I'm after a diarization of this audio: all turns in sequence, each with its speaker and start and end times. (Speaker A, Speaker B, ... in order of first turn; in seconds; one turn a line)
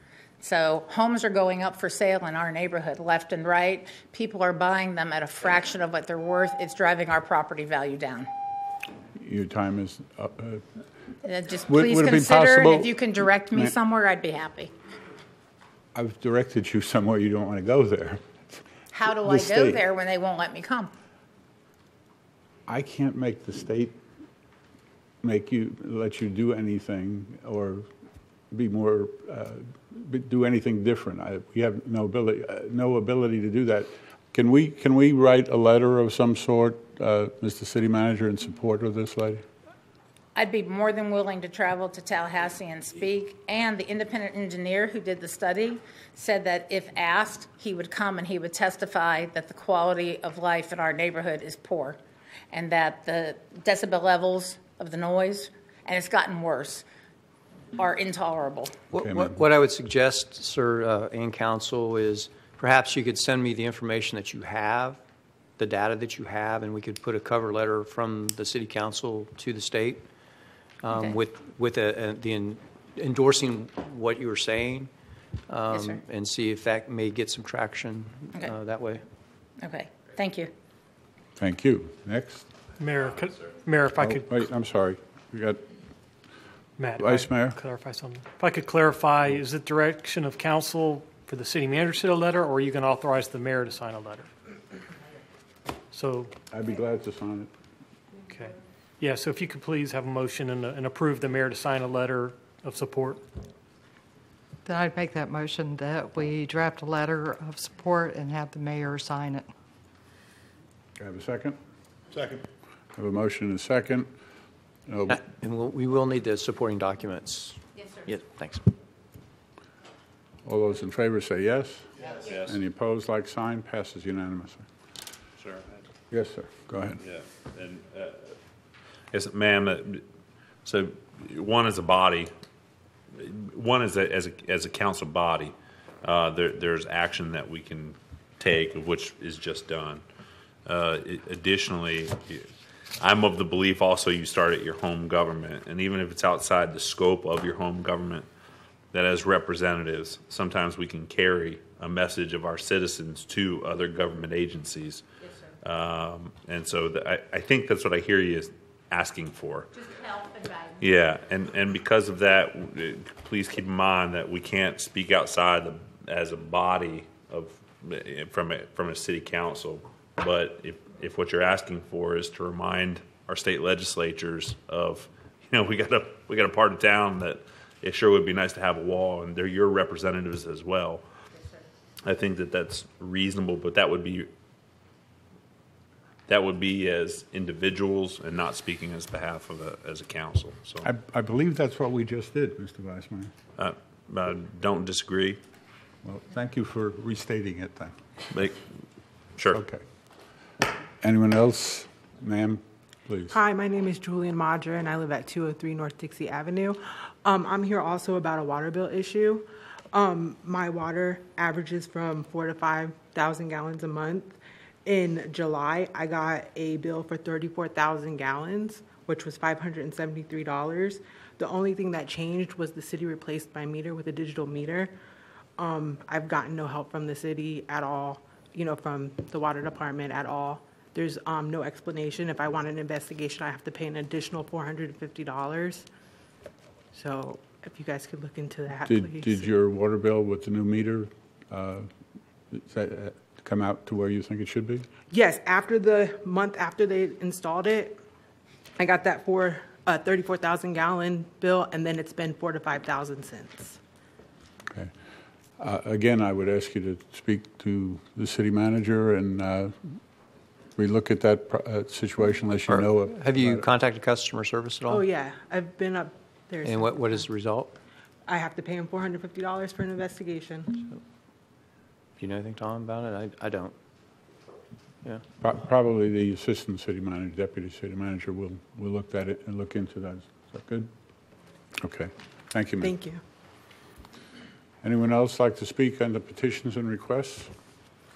Speaker A: 0.4-8.3
Speaker B: 9.2-10.6
Speaker A: 11.2-14.7
Speaker B: 11.7-12.9
Speaker B: 15.9-18.4
Speaker A: 18.9-20.9
Speaker B: 19.2-19.8
Speaker B: 22.7-23.9
Speaker B: 25.2-27.9
Speaker B: 28.5-39.4
Speaker A: 40.3-52.0
Speaker A: 52.5-56.9
Speaker A: 57.8-58.7
Speaker C: 58.9-65.0
Speaker B: 59.0-59.4
Speaker C: 65.6-70.0
Speaker C: 70.8-74.9
Speaker C: 75.5-79.0
Speaker A: 75.7-76.0
Speaker A: 79.6-80.5
Speaker B: 81.4-82.5
Speaker D: 82.8-84.4
Speaker B: 84.0-85.6
Speaker D: 86.8-94.3
Speaker B: 87.0-87.6
Speaker D: 95.9-96.3
Speaker B: 96.5-97.5
Speaker D: 98.2-103.2
Speaker E: 104.6-109.5
Speaker B: 111.0-111.6
Speaker B: 112.9-114.1
Speaker B: 114.9-115.2
Speaker C: 115.1-118.6
Speaker B: 120.4-124.7
Speaker F: 122.1-122.5
Speaker F: 125.4-125.7
Speaker B: 126.1-127.0
Speaker F: 127.0-128.3
Speaker F: 129.1-130.0
Speaker F: 130.6-132.3
Speaker F: 133.1-140.0
Speaker F: 140.7-142.5
Speaker F: 143.0-148.3
Speaker F: 148.9-155.0
Speaker F: 155.6-159.9
Speaker F: 160.8-181.0
Speaker F: 182.0-184.3
Speaker F: 186.3-190.9
Speaker B: 190.8-193.3
Speaker F: 193.6-195.4
Speaker B: 196.0-198.5
Speaker F: 198.3-198.6
Speaker F: 199.4-199.6
Speaker B: 199.5-199.8
Speaker B: 201.0-203.4
Speaker G: 203.3-224.9
Speaker G: 225.6-235.8
Speaker G: 236.9-239.4
Speaker B: 238.9-241.9
Speaker B: 242.5-244.8
Speaker G: 245.1-248.0
Speaker G: 248.8-253.8
Speaker B: 255.6-260.0
Speaker B: 260.8-263.7
Speaker C: 262.7-265.1
Speaker G: 264.9-267.3
Speaker C: 266.6-267.8
Speaker G: 268.2-270.8
Speaker C: 272.2-273.7
Speaker B: 275.4-280.9
Speaker B: 281.8-282.9
Speaker G: 282.8-283.2
Speaker B: 284.8-287.5